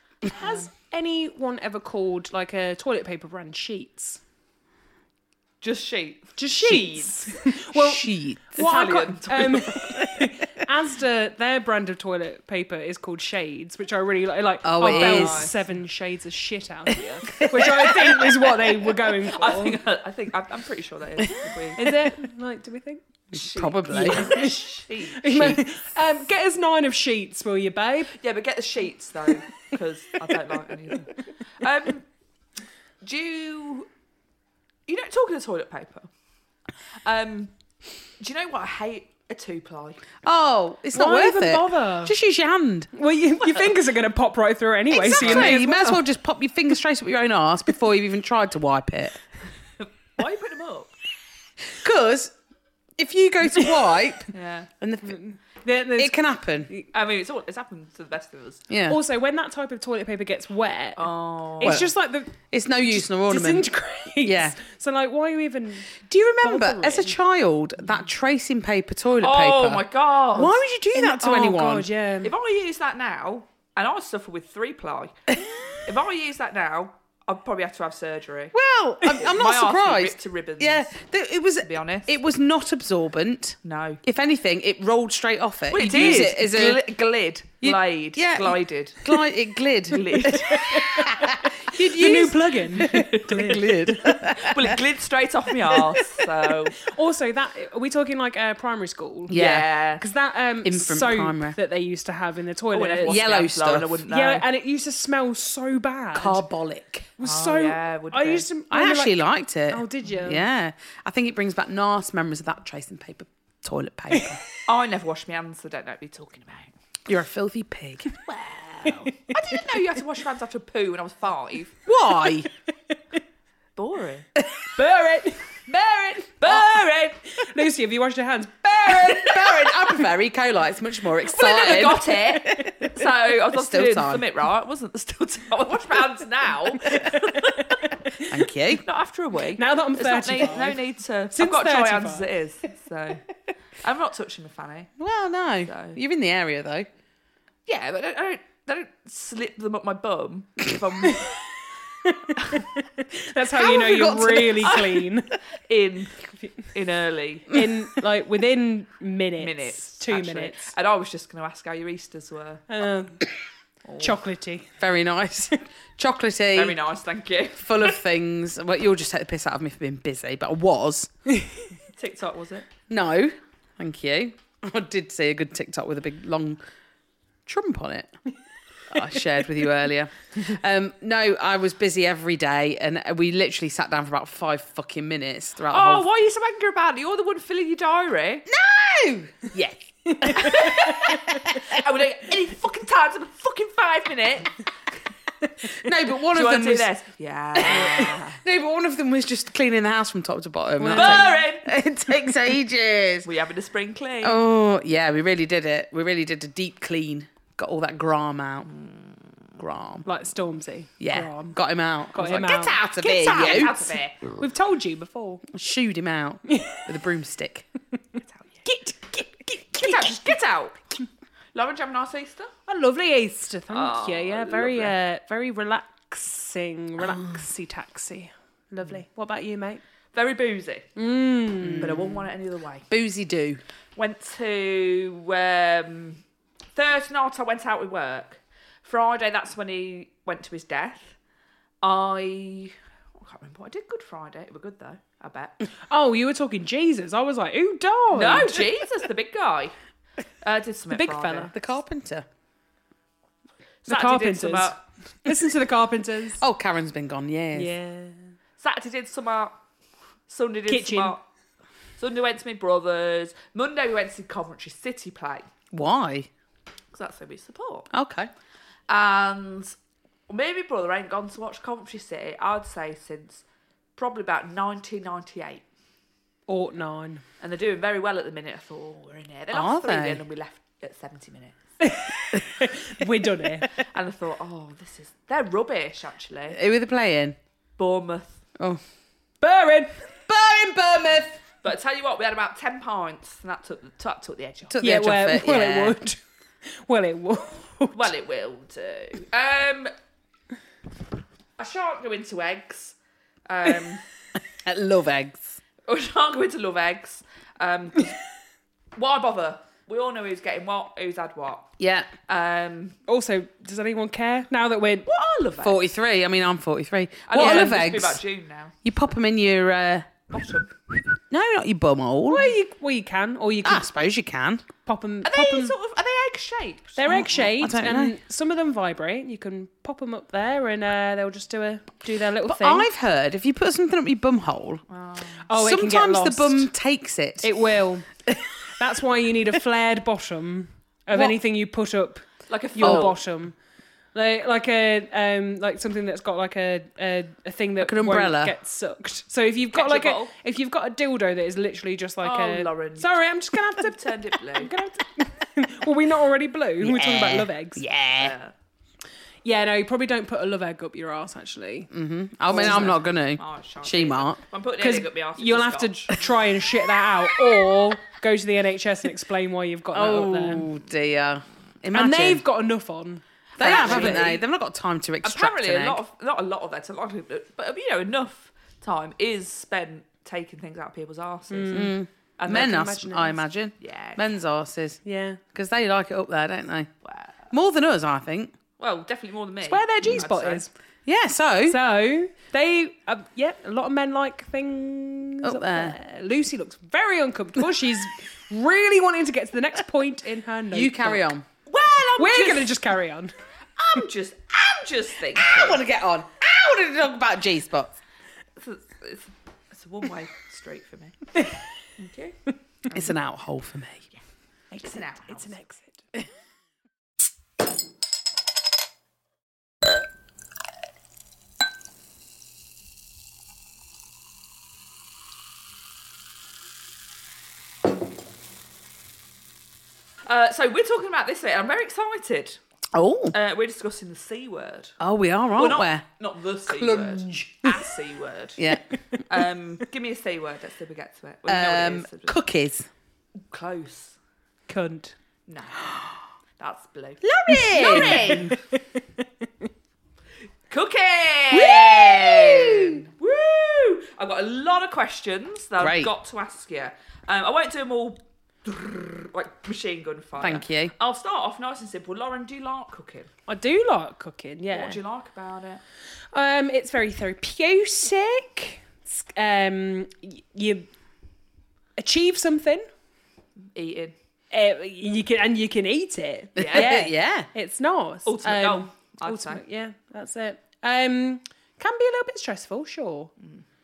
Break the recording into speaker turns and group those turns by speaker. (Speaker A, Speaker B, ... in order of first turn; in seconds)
Speaker A: 0.3-4.2, 6.4-19.8, 21.8-23.0, 23.9-24.6, 25.2-28.2, 40.9-42.2, 42.9-46.0, 55.0-56.1, 58.9-67.2, 70.9-72.3, 90.3-93.9, 96.8-103.2, 104.1-106.5, 107.2-110.5, 114.1-114.4, 124.8-125.5, 127.4-129.5, 137.1-138.5, 139.6-140.8, 141.3-142.3, 152.1-155.3, 157.5-160.7, 162.7-163.3, 164.0-164.7, 190.1-191.4, 200.8-201.4, 210.1-211.6, 212.1-213.7, 214.4-215.4, 216.5-216.8, 218.7-220.4, 222.7-229.8, 231.0-232.0, 245.9-248.7, 250.9-251.5, 253.9-256.4, 257.6-258.3, 260.7-261.1, 276.5-277.2, 281.8-283.7, 289.4-290.0, 294.8-296.2, 296.8-298.1, 313.1-315.1, 317.4-317.7, 322.3-323.9, 324.8-325.8, 327.0-332.9, 335.5-336.7, 337.4-338.1, 338.8-343.6, 344.1-357.8, 359.4-361.9, 364.8-370.7, 371.9-374.4, 381.5-382.0, 382.5-383.4, 385.1-385.4, 389.6-390.7, 391.7-401.3, 402.2-403.3, 414.7-416.0, 444.7-445.1, 447.6-448.6, 463.5-465.0, 466.3-470.9, 472.0-472.8, 474.5-483.3
Speaker B: 0.4-0.7, 5.6-6.4, 8.6-9.8, 14.8-15.5, 19.2-21.9, 23.3-25.2, 28.2-32.1, 33.0-33.9, 34.9-36.1, 37.0-37.5, 38.2-40.0, 45.0-46.0, 49.8-50.9, 54.3-54.7, 56.9-58.6, 61.0-61.9, 69.2-70.6, 72.2-75.2, 75.8-78.5, 79.1-80.9, 81.6-82.2, 83.6-84.0, 85.7-89.2, 89.9-91.0, 94.3-96.8, 99.3-100.0, 102.7-104.4, 107.2-108.5, 114.7-116.7, 118.6-121.8, 123.8-124.3, 125.7-127.3, 131.3-137.9, 138.8-143.2, 143.8-144.9, 145.7-146.0, 147.7-151.3, 154.7-155.0, 155.6-157.6, 159.4-162.6, 163.8-164.2, 166.5-167.9, 171.8-172.7, 185.7-188.5, 189.6-194.6, 196.3-198.4, 200.9-201.7, 203.2-204.4, 208.8-209.1, 213.0-214.2, 219.8-220.8, 221.5-222.5, 223.7-224.9, 230.1-230.9, 231.8-232.9, 234.0-236.2, 236.8-241.2, 241.8-245.6, 248.1-249.8, 250.4-251.5, 253.8-254.8, 258.6-259.6, 260.3-261.2, 262.0-265.5, 266.9-267.9, 268.9-269.8, 270.3-273.4, 274.0-275.6, 277.4-281.6, 283.7-286.6, 287.8-288.4, 291.6-294.8, 297.9-299.9, 301.6-303.0, 303.5-304.0, 305.9-308.2, 309.0-311.7, 312.3-313.0, 315.1-315.8, 317.3-318.8, 320.3-320.7, 325.2-327.1, 334.9-335.5, 342.5-343.2, 349.7-350.3, 352.2-353.1, 353.7-354.7, 358.2-358.5, 362.5-366.1, 373.6-374.4, 375.2-382.8, 383.8-384.2, 387.1-387.3, 388.8-390.6, 401.7-402.7, 403.8-405.8, 408.6-411.2, 412.0-413.2, 414.8-415.6, 430.3-432.6, 433.3-435.0, 435.6-442.4, 443.5-444.2, 445.5-446.0, 446.6-448.6, 450.7-463.3, 464.7-465.8, 473.8-474.1, 476.6-477.0, 478.3-479.6
Speaker C: 6.6-8.6, 9.7-10.3, 14.6-15.5, 17.2-18.5, 23.3-24.4, 25.2-25.6, 40.2-42.9, 44.9-49.2, 51.8-52.4, 53.0-55.2, 56.0-56.7, 58.7-59.0, 61.6-61.9, 62.5-63.7, 64.2-64.6, 66.0-71.9, 78.5-86.8, 87.6-94.8, 99.3-99.7, 100.6-101.6, 103.0-104.0, 106.2-107.1, 108.7-114.4, 117.1-118.3, 121.9-122.5, 124.4-124.7, 128.9-134.2, 138.3-138.8, 145.0-146.9, 153.5-155.0, 164.8-166.8, 167.6-171.1, 172.9-176.6, 177.5-178.1, 178.9-186.1, 188.5-189.6, 190.2-191.6, 195.7-196.9, 197.6-203.3, 204.2-208.7, 209.6-210.1, 211.0-213.8, 215.5-217.7, 231.6-232.2, 232.9-233.6, 251.5-252.3, 256.4-257.7, 265.7-266.3, 267.9-268.3, 279.5-280.2, 286.5-287.4, 290.3-291.4, 294.7-296.0, 304.5-305.6, 311.8-312.1, 315.6-318.2, 318.8-320.1, 320.9-322.6, 323.6-324.7, 327.1-328.2, 332.4-334.8, 335.5-337.5, 342.8-343.1, 347.8-348.6, 356.8-358.3, 361.9-364.4, 369.9-372.4, 373.6-376.0, 381.7-385.0, 385.5-386.9, 387.5-388.5, 391.1-391.8, 395.4-396.0, 400.7-401.5, 405.4-408.0, 412.9-414.1, 432.9-433.3, 435.0-436.1, 436.7-437.8, 438.6-438.8, 441.5-442.9, 447.2-448.6, 451.5-453.0, 455.8-456.1, 460.4-460.9, 476.6-477.5